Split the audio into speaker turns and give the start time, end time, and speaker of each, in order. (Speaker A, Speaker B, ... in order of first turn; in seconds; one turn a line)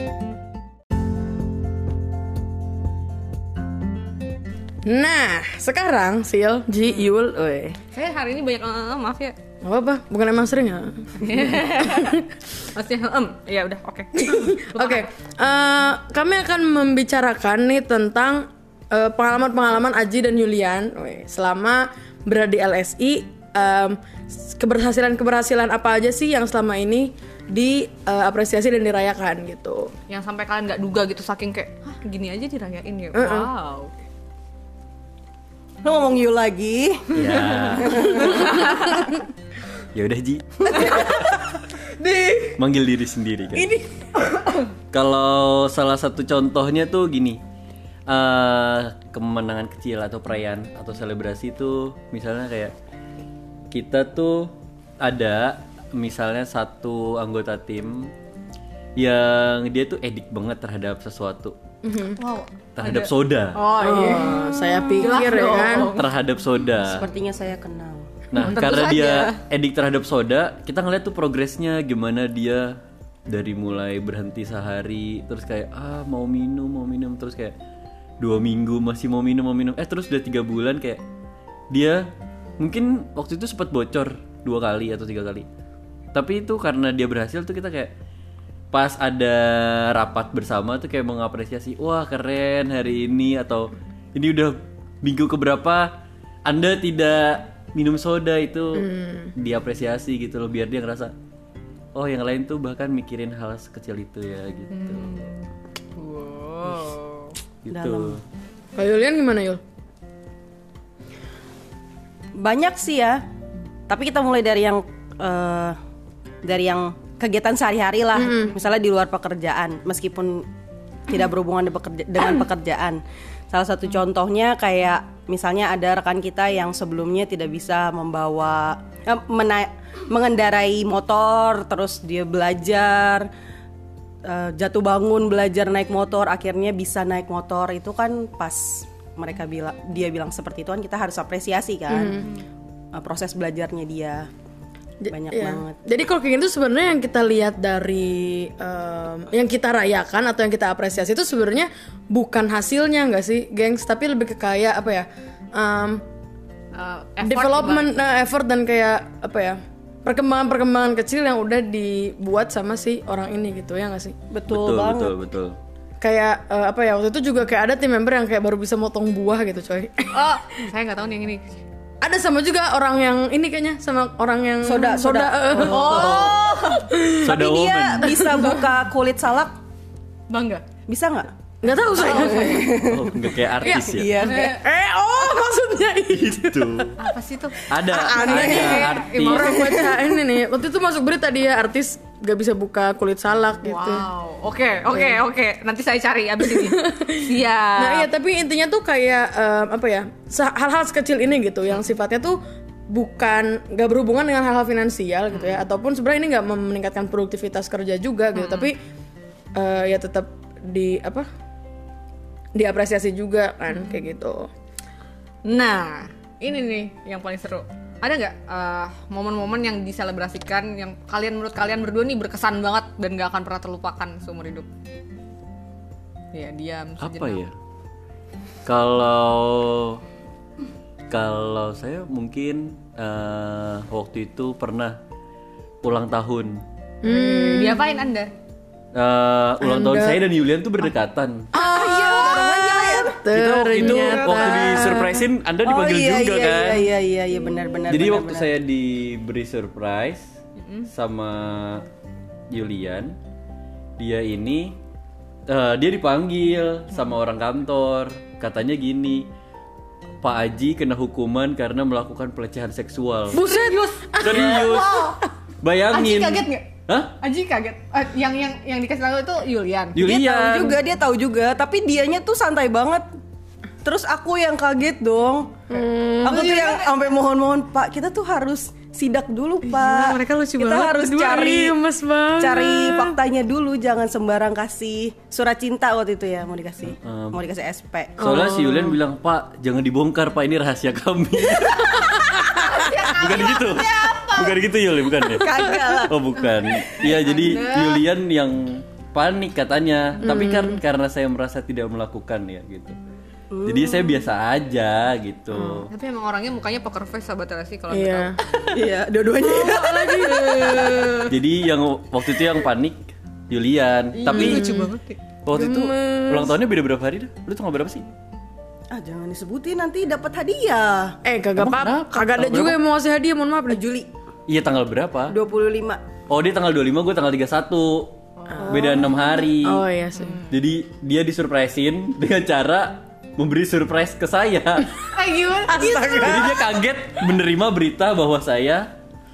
Speaker A: 4.8-7.8
Speaker B: 7.9-9.3
Speaker A: 9.6-12.2
Speaker B: 11.2-15.1
Speaker A: 14.2-29.9
Speaker B: 30.1-33.9
Speaker A: 33.1-33.5
Speaker C: 35.8-38.7
Speaker D: 37.1-38.4
Speaker B: 38.3-39.0
Speaker D: 39.9-41.2
Speaker B: 42.0-42.3
Speaker D: 42.5-43.7
Speaker A: 43.6-44.5
Speaker D: 44.9-47.4
Speaker D: 48.1-52.7
Speaker D: 53.7-58.1
Speaker D: 59.0-61.6
Speaker A: 61.8-62.2
Speaker B: 62.1-66.0
Speaker D: 62.8-63.6
Speaker A: 63.8-66.0
Speaker D: 65.9-67.0
Speaker C: 66.8-68.1
Speaker D: 68.3-77.5
Speaker B: 68.4-69.4
Speaker D: 78.2-81.0
Speaker D: 81.7-85.5
Speaker D: 86.1-87.9
Speaker D: 88.7-101.1
Speaker A: 98.8-99.3
Speaker D: 101.9-105.2
Speaker B: 104.7-107.3
Speaker D: 107.6-108.2
Speaker C: 107.7-108.2
Speaker A: 108.8-109.6
Speaker C: 112.3-113.2
Speaker C: 113.9-115.8
Speaker C: 116.4-120.5
Speaker A: 118.2-118.5
Speaker C: 121.1-133.3
Speaker C: 134.2-142.3
Speaker A: 141.9-142.3
Speaker C: 142.9-144.3
Speaker A: 145.0-156.0
Speaker C: 145.1-145.8
Speaker B: 156.7-157.9
Speaker A: 157.2-164.2
Speaker C: 164.3-165.2
Speaker D: 164.5-165.6
Speaker A: 166.0-170.1
Speaker B: 170.1-171.6
Speaker A: 172.0-177.3
Speaker C: 174.6-179.6
Speaker B: 175.6-176.8
Speaker D: 176.0-176.3
Speaker D: 177.2-178.2
Speaker A: 178.0-178.6
Speaker B: 180.3-180.6
Speaker C: 180.9-181.3
Speaker A: 181.6-182.8
Speaker C: 181.9-184.6
Speaker B: 181.9-182.7
Speaker D: 182.8-184.2
Speaker A: 183.6-186.9
Speaker B: 184.2-184.6
Speaker D: 186.1-187.0
Speaker B: 187.0-189.9
Speaker D: 187.7-189.7
Speaker A: 187.9-194.0
Speaker B: 193.6-198.1
Speaker A: 194.9-195.2
Speaker A: 196.5-202.4
Speaker A: 202.9-208.8
Speaker B: 205.3-205.6
Speaker B: 208.3-208.7
Speaker A: 209.5-211.3
Speaker A: 212.5-214.5
Speaker B: 215.4-224.7
Speaker B: 226.3-227.4
Speaker D: 227.0-227.5
Speaker D: 228.6-230.0
Speaker D: 231.1-235.0
Speaker D: 235.8-236.6
Speaker A: 237.0-237.8
Speaker B: 237.0-238.3
Speaker D: 238.9-241.5
Speaker A: 239.6-240.2
Speaker A: 241.5-245.2
Speaker C: 241.5-243.2
Speaker B: 241.7-242.5
Speaker D: 243.3-246.9
Speaker C: 243.8-244.7
Speaker C: 245.6-248.5
Speaker D: 247.9-250.3
Speaker B: 250.6-250.9
Speaker D: 250.9-251.8
Speaker D: 252.5-253.2
Speaker D: 254.0-254.8
Speaker D: 255.5-259.3
Speaker D: 260.2-263.4
Speaker A: 263.3-264.7
Speaker B: 263.3-265.2
Speaker D: 264.2-267.1
Speaker B: 265.9-270.0
Speaker D: 269.9-270.8
Speaker C: 270.0-273.1
Speaker C: 273.8-275.6
Speaker A: 275.7-276.6
Speaker C: 276.2-281.8
Speaker B: 276.2-276.9
Speaker B: 279.7-281.0
Speaker A: 280.8-283.2
Speaker C: 282.4-288.4
Speaker D: 286.9-287.4
Speaker D: 288.2-302.9
Speaker A: 288.2-288.9
Speaker B: 292.5-294.6
Speaker C: 295.3-296.2
Speaker B: 297.0-298.0
Speaker A: 300.2-300.8
Speaker C: 303.5-304.2
Speaker D: 303.6-305.9
Speaker A: 305.5-305.9
Speaker B: 305.9-308.8
Speaker A: 307.9-308.4
Speaker C: 308.7-311.2
Speaker A: 309.4-311.0
Speaker B: 309.6-311.3
Speaker D: 311.3-314.7
Speaker B: 314.2-315.2
Speaker A: 314.2-314.9
Speaker D: 315.4-318.1
Speaker A: 315.5-316.6
Speaker C: 318.9-321.2
Speaker A: 321.2-323.8
Speaker D: 321.6-322.8
Speaker C: 323.7-324.1
Speaker D: 324.5-325.4
Speaker C: 325.3-326.0
Speaker D: 326.3-328.1
Speaker B: 328.4-328.9
Speaker A: 328.6-330.4
Speaker D: 328.7-329.8
Speaker B: 330.1-330.5
Speaker D: 330.5-335.0
Speaker B: 335.1-336.4
Speaker A: 335.7-336.6
Speaker D: 336.2-338.9